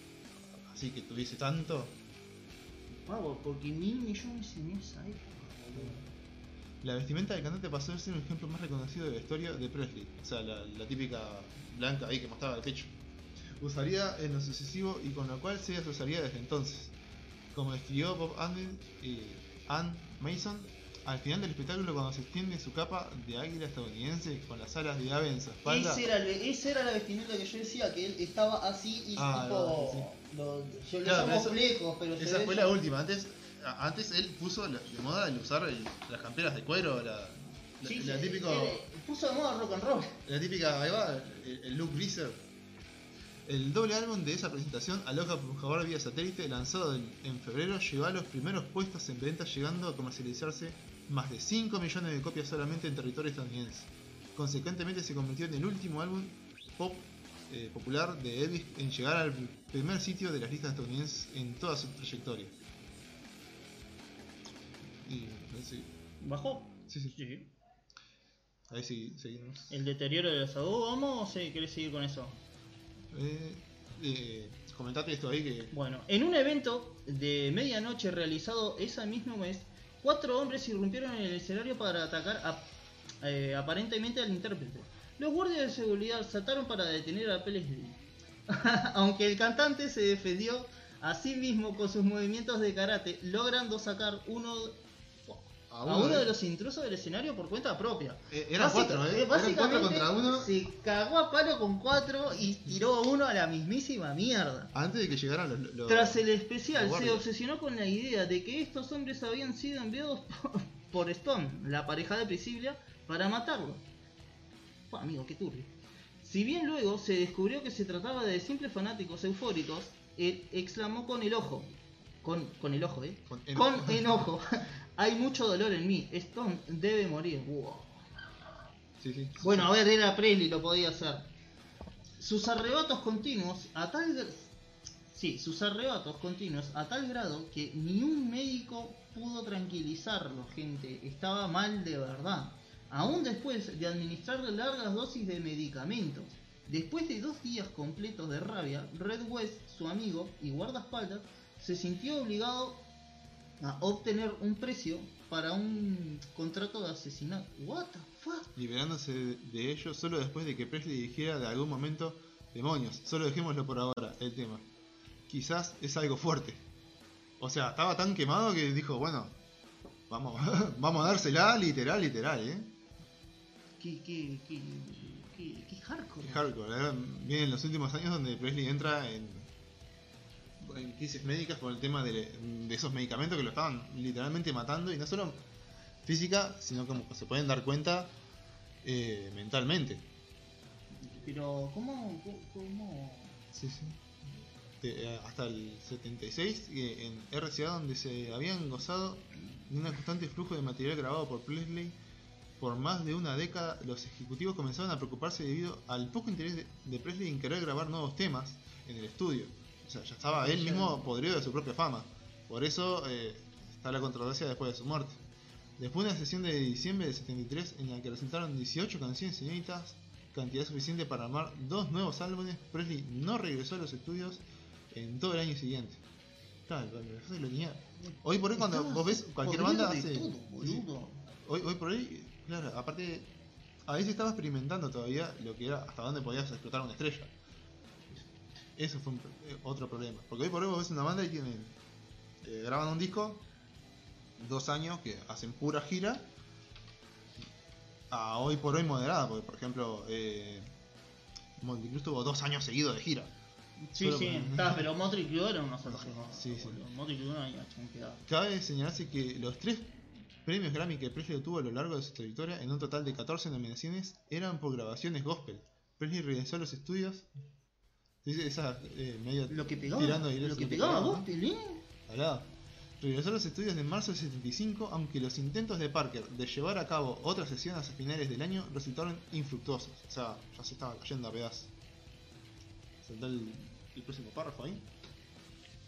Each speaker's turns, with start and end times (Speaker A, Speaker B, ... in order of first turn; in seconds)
Speaker A: 0.5-2.0, 5.7-6.0, 6.8-12.9, 13.6-16.9, 17.5-26.1, 29.1-30.1, 31.0-31.6, 32.2-38.8, 40.2-42.4, 43.5-62.5, 65.0-65.9, 66.9-67.2, 68.7-69.7, 73.1-75.7, 95.7-96.3, 98.3-100.5, 104.7-107.2, 123.3-124.1, 129.0-129.7, 158.5-164.7, 165.3-166.6, 167.4-169.3, 170.1-172.7, 176.2-179.5, 180.6-185.4, 186.0-188.1, 188.8-190.1, 193.5-201.9, 202.6-215.2, 215.8-226.0, 226.7-233.3, 233.9-237.3, 238.8-241.8, 242.4-243.4, 244.4-246.3, 248.1-250.7, 251.6-253.3, 254.0-254.9, 255.8-256.8, 258.3-267.3, 268.2-271.2, 272.1-281.7, 283.0-284.9
Speaker B: 3.1-6.0, 25.6-32.7, 37.8-40.2, 66.2-67.5, 69.7-72.4, 75.7-82.7, 83.2-104.7, 105.9-113.8, 114.9-128.0, 129.4-131.3, 132.2-134.5, 135.1-152.9, 153.6-158.5, 173.8-176.5, 191.0-193.4, 210.3-211.1, 228.5-231.2, 253.8-258.2, 269.5-271.8